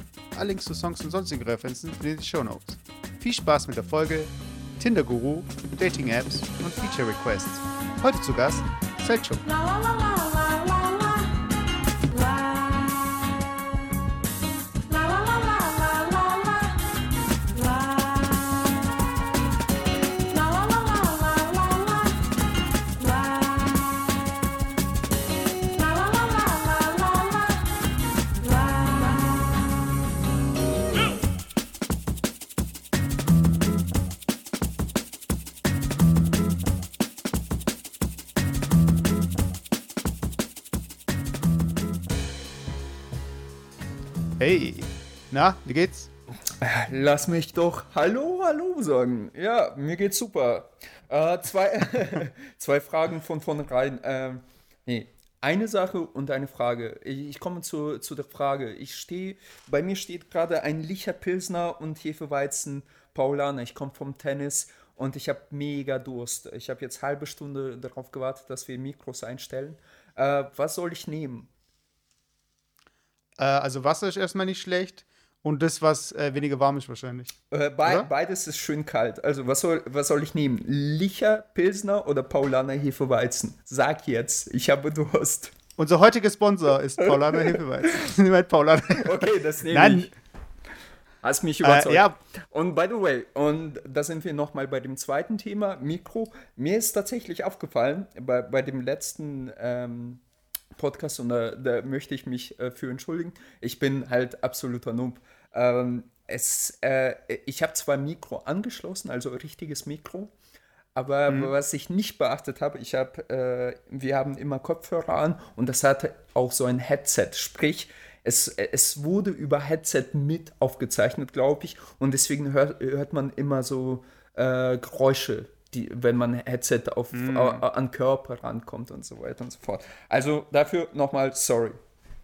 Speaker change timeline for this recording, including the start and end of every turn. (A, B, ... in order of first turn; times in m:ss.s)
0:00.3-0:09.5 A
0:44.4-0:46.1 A
0:46.6-1:11.5 B
1:13.4-1:18.1 A
1:17.5-1:25.5 B
1:25.8-1:30.1 A
1:27.0-1:27.6 B
1:28.9-1:30.1 B
1:31.2-1:40.2 B
1:31.6-1:32.2 A
1:40.8-1:50.3 B
1:50.9-2:11.8 B
1:51.3-1:51.5 A
2:07.1-2:07.6 A